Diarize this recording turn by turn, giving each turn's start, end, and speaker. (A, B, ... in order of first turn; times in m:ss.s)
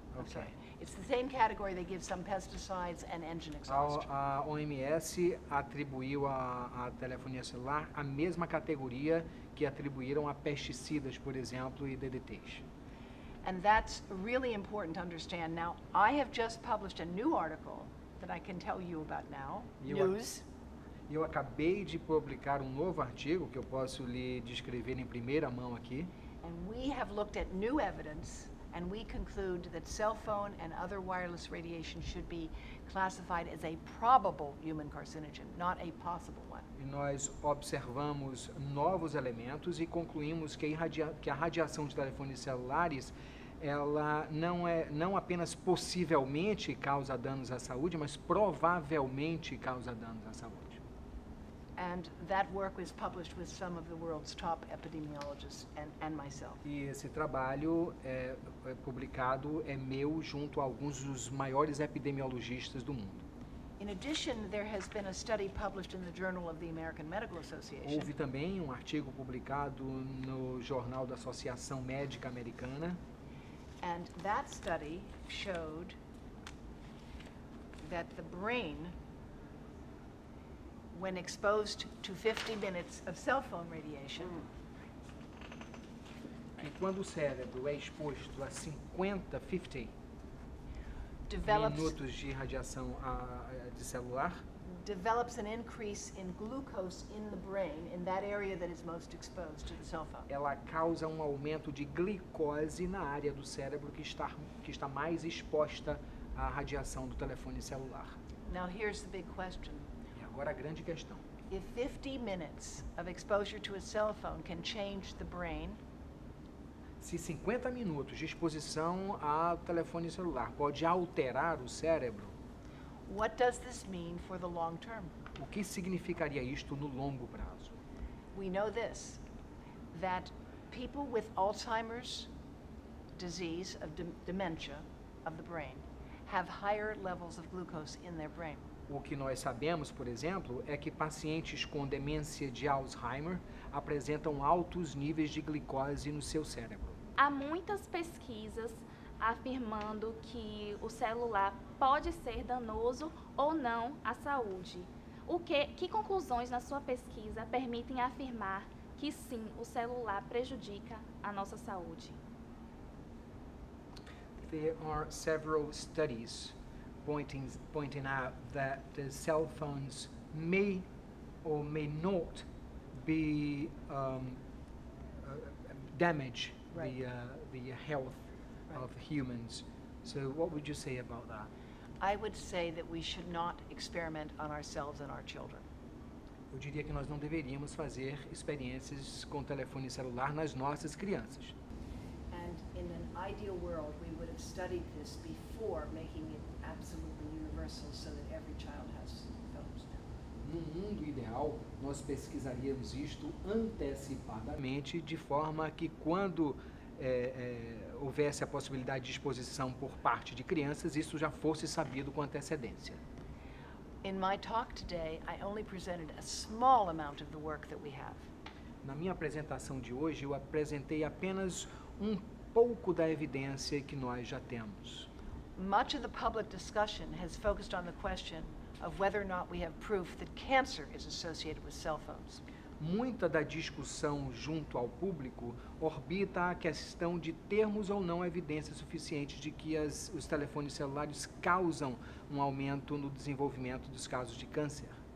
0:00.1-0:00.5 A
0:00.2-0:04.1 B
0:03.7-0:12.6 A
0:13.4-0:20.4 B
0:19.8-0:20.2 A
0:21.1-0:26.1 A
0:26.4-0:36.7 B
0:36.8-0:50.8 A
0:51.8-0:56.6 B
0:56.6-1:03.2 A
1:03.8-1:08.1 B
1:07.8-1:13.0 A
1:13.8-1:16.0 B
1:17.8-1:18.9 B
1:20.9-1:24.4 B
1:26.6-1:29.9 A
1:31.3-1:31.9 B
1:31.5-1:34.4 A
1:34.7-1:40.3 B
1:40.3-1:48.2 A
1:48.5-1:49.9 B
1:50.1-1:51.2 A
1:51.5-1:55.8 B
1:57.0-2:02.3 A
2:03.1-2:05.1 B
2:05.4-2:07.8 A
2:08.3-2:09.2 B
2:09.9-2:12.3 B
2:13.2-2:18.6 B
2:18.9-2:27.0 A
2:27.2-2:42.2 C
2:44.4-2:50.8 A
2:51.4-2:52.4 A
2:53.0-2:54.4 A
2:55.2-3:01.5 A
3:02.0-3:05.6 B
3:06.5-3:11.5 A
3:12.3-3:20.1 B
3:20.4-3:33.0 A
3:34.0-3:38.2 B
3:38.8-3:45.1 A
3:45.6-3:52.4 B
3:52.8-4:05.0 A